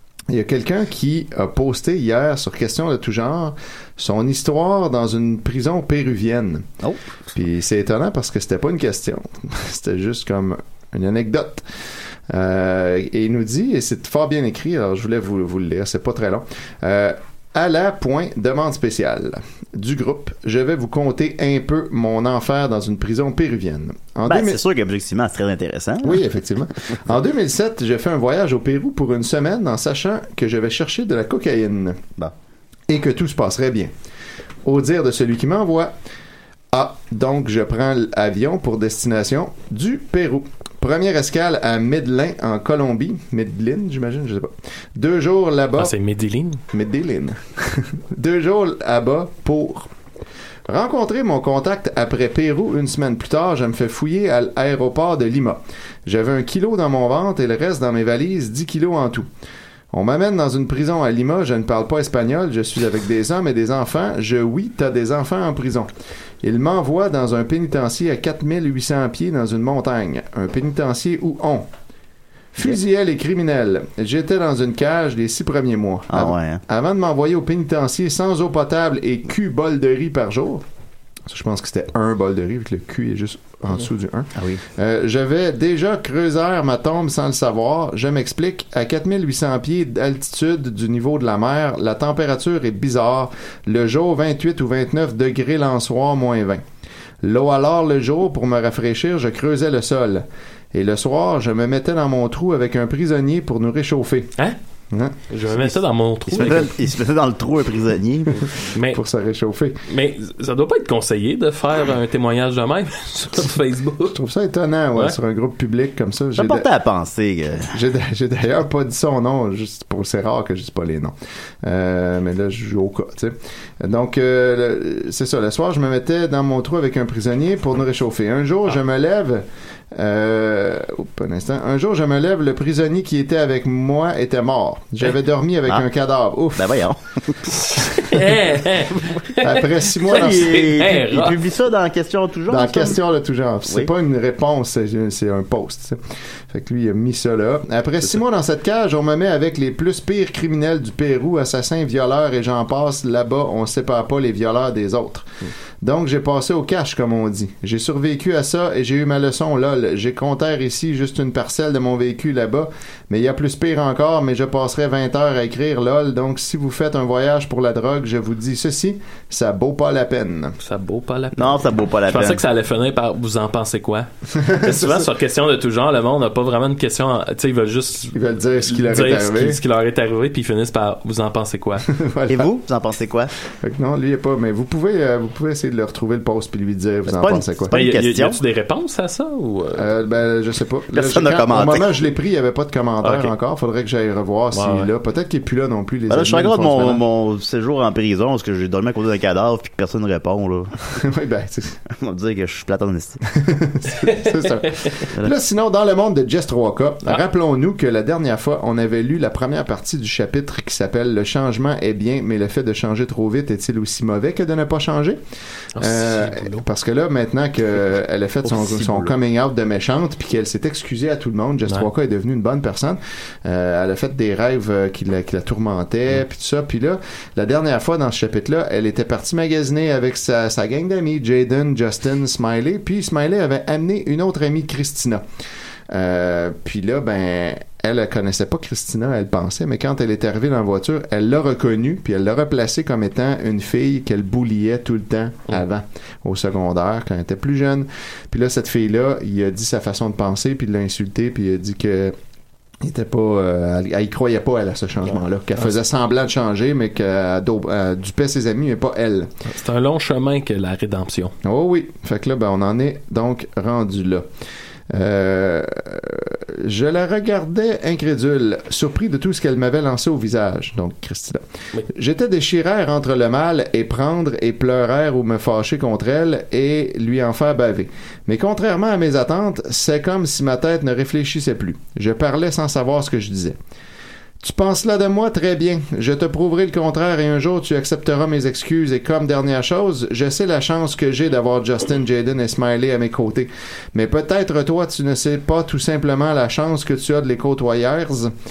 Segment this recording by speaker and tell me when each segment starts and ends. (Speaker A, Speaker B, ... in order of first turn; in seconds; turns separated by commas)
Speaker A: 0.3-6.7, Speaker A: 7.3-11.7, Speaker A: 12.3-24.6, Speaker B: 24.3-26.2, Speaker A: 26.0-32.0, Speaker A: 32.9-33.9, Speaker A: 34.6-35.9, Speaker A: 36.7-45.9, Speaker C: 45.8-46.6, Speaker A: 46.7-49.9, Speaker A: 50.7-59.3, Speaker A: 59.9-65.9, Speaker A: 66.4-71.7, Speaker A: 72.5-80.6, Speaker B: 76.1-76.6, Speaker A: 81.3-96.6, Speaker B: 84.4-84.6, Speaker A: 97.2-104.3, Speaker A: 104.9-105.8, Speaker C: 105.3-106.7, Speaker B: 106.3-108.5, Speaker C: 108.7-109.0, Speaker A: 108.9-109.8, Speaker C: 109.9-114.2, Speaker A: 114.1-116.7, Speaker B: 116.4-117.7, Speaker A: 117.7-136.8, Speaker B: 136.6-137.5, Speaker C: 137.8-141.4, Speaker A: 139.4-140.7, Speaker B: 140.1-143.0, Speaker A: 142.5-155.3, Speaker A: 155.8-170.6, Speaker C: 170.6-181.9, Speaker B: 171.4-172.4, Speaker A: 174.3-175.1, Speaker A: 178.1-179.6, Speaker A: 181.9-182.5, Speaker B: 182.3-183.3, Speaker A: 183.6-187.7, Speaker B: 187.1-188.4, Speaker C: 187.7-189.9, Speaker A: 189.8-197.0, Speaker B: 190.9-192.0, Speaker C: 193.0-193.3, Speaker C: 194.5-194.9, Speaker B: 196.1-200.9, Speaker A: 200.9-201.8, Speaker B: 201.9-203.2, Speaker A: 203.3-215.2, Speaker C: 204.0-205.0, Speaker C: 215.8-216.6, Speaker A: 215.8-235.2, Speaker B: 218.4-219.1, Speaker A: 235.9-252.2, Speaker A: 252.8-259.3, Speaker C: 259.5-261.3, Speaker A: 261.4-264.3, Speaker A: 264.9-283.6, Speaker A: 284.4-298.3